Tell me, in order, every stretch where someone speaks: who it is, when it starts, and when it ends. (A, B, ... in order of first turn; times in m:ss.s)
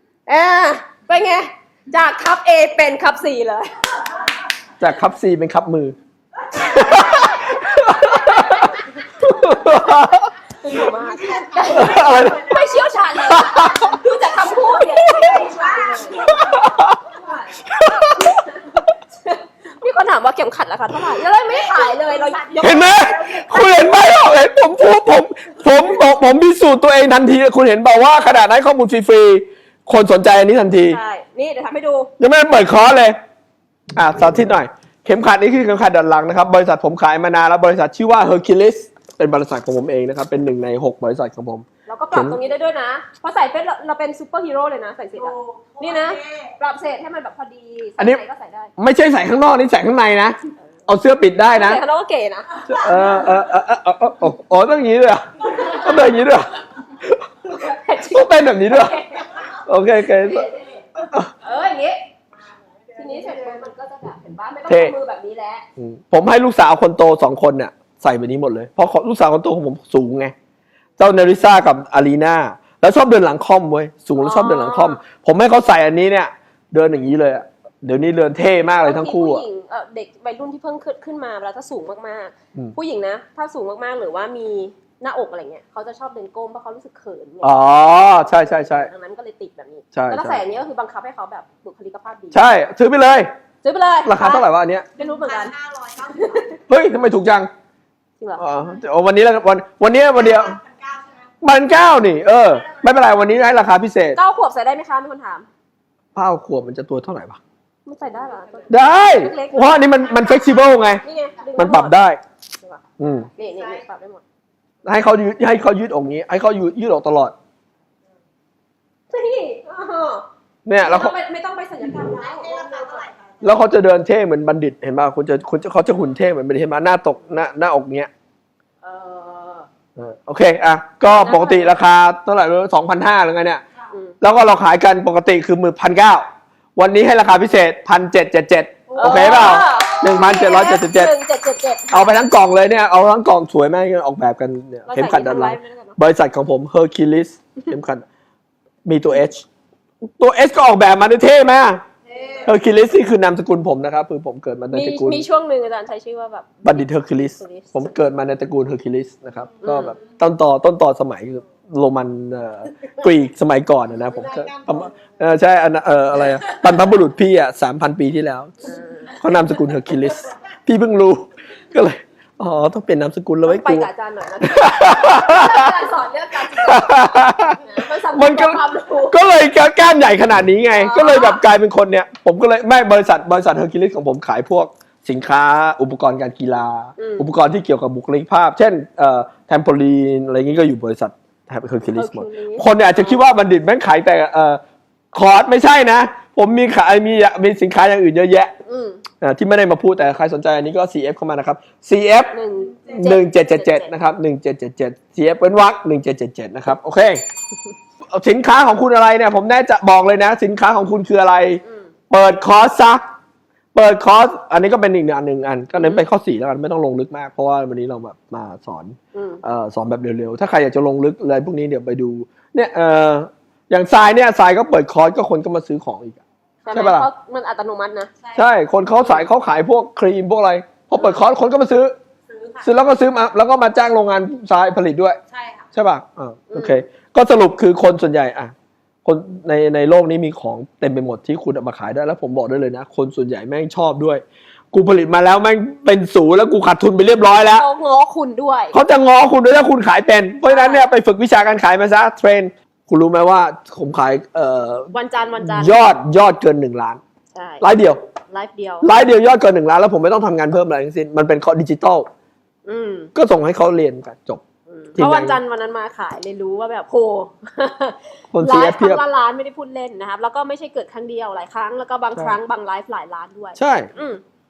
0:00.3-0:04.2 A
0:04.8-0:06.0 B
0:06.5-0:10.3 B
0:06.7-0:10.0 A
0:10.6-0:16.4 A
0:11.0-0:13.0 C
0:11.7-0:12.6 B
0:13.2-0:14.0 B
0:13.6-0:17.4 C
0:16.2-0:17.0 B
0:17.6-0:18.4 B
0:17.8-0:23.0 A
0:21.5-0:23.6 C
0:22.6-0:31.0 B
0:30.9-0:32.1 A
0:32.2-0:33.2 B
0:34.0-0:42.4 B
0:41.9-0:48.7 A
0:45.2-0:46.5 C
0:48.8-0:50.4 B
0:50.9-0:51.8 B
0:51.5-0:53.2 A
0:52.6-1:00.5 B
0:55.5-0:56.1 A
0:57.5-0:59.4 A
1:00.2-1:02.1 A
1:02.9-1:03.6 C
1:03.0-1:05.6 A
1:04.7-1:04.9 B
1:05.8-1:10.3 B
1:11.0-1:19.4 B
1:14.2-1:15.0 A
1:18.8-1:32.5 A
1:27.4-1:28.9 B
1:29.9-1:30.4 B
1:32.3-1:33.3 B
1:33.6-1:35.5 A
1:34.0-1:34.9 B
1:35.0-1:36.5 C
1:36.2-1:36.5 A
1:36.7-1:37.5 B
1:38.4-1:40.6 B
1:40.2-1:41.2 C
1:41.4-1:44.2 B
1:44.2-1:45.5 A
1:46.2-1:47.4 B
1:47.9-1:50.4 A
1:48.7-1:51.0 B
1:51.0-1:52.0 A
1:51.6-1:52.2 B
1:52.6-1:54.2 A
1:53.0-1:53.3 B
1:53.5-1:53.8 C
1:54.8-1:57.4 B
1:59.1-2:00.3 A
2:00.7-2:01.2 B
2:00.8-2:03.1 A
2:02.0-2:03.4 C
2:03.4-2:08.1 B
2:08.8-2:09.7 A
2:10.0-2:13.6 B
2:11.1-2:11.7 A
2:13.9-2:14.2 A
2:14.2-2:16.2 B
2:16.8-2:21.1 B
2:18.9-2:20.3 C
2:19.0-2:22.2 A
2:21.9-2:28.0 B
2:24.9-2:26.0 A
2:28.8-2:29.5 B
2:30.0-2:31.8 B
2:32.1-2:32.5 C
2:32.4-2:35.2 B
2:34.7-2:37.9 A
2:36.6-2:53.9 B
2:39.6-2:40.0 A
2:44.2-2:44.9 C
2:48.6-2:49.3 A
2:53.4-2:59.2 A
2:54.4-2:55.7 B
2:56.5-2:57.6 B
2:58.1-3:14.6 B
3:00.8-3:01.4 A
3:07.0-3:07.3 A
3:12.0-3:13.2 A
3:15.1-3:18.5 B
3:18.6-3:19.0 A
3:19.2-3:22.4 B
3:22.3-3:23.9 A
3:22.9-3:27.2 B
3:28.0-3:33.0 B
3:31.6-3:31.9 A
3:33.7-3:46.2 B
3:35.8-3:36.1 A
3:39.1-3:39.4 A
3:46.6-3:48.1 A
3:46.7-3:47.1 B
3:48.2-3:48.5 C
3:48.3-3:52.0 B
3:49.0-3:49.3 A
3:51.0-3:51.3 A
3:52.3-3:52.7 C
3:52.6-3:55.2 B
3:55.3-3:55.7 C
3:55.7-3:58.5 B
3:56.5-3:56.8 A
3:59.0-4:07.7 B
4:07.4-4:08.8 A
4:08.7-4:17.0 B
4:10.5-4:10.9 A
4:14.9-4:15.8 A
4:17.3-4:17.7 A
4:17.6-4:18.0 B
4:18.3-4:18.9 A
4:18.8-4:22.1 B
4:22.7-4:23.1 A
4:23.1-4:24.4 B
4:24.7-4:34.2 A
4:25.0-4:25.4 B
4:28.3-4:29.0 B
4:33.6-4:33.9 B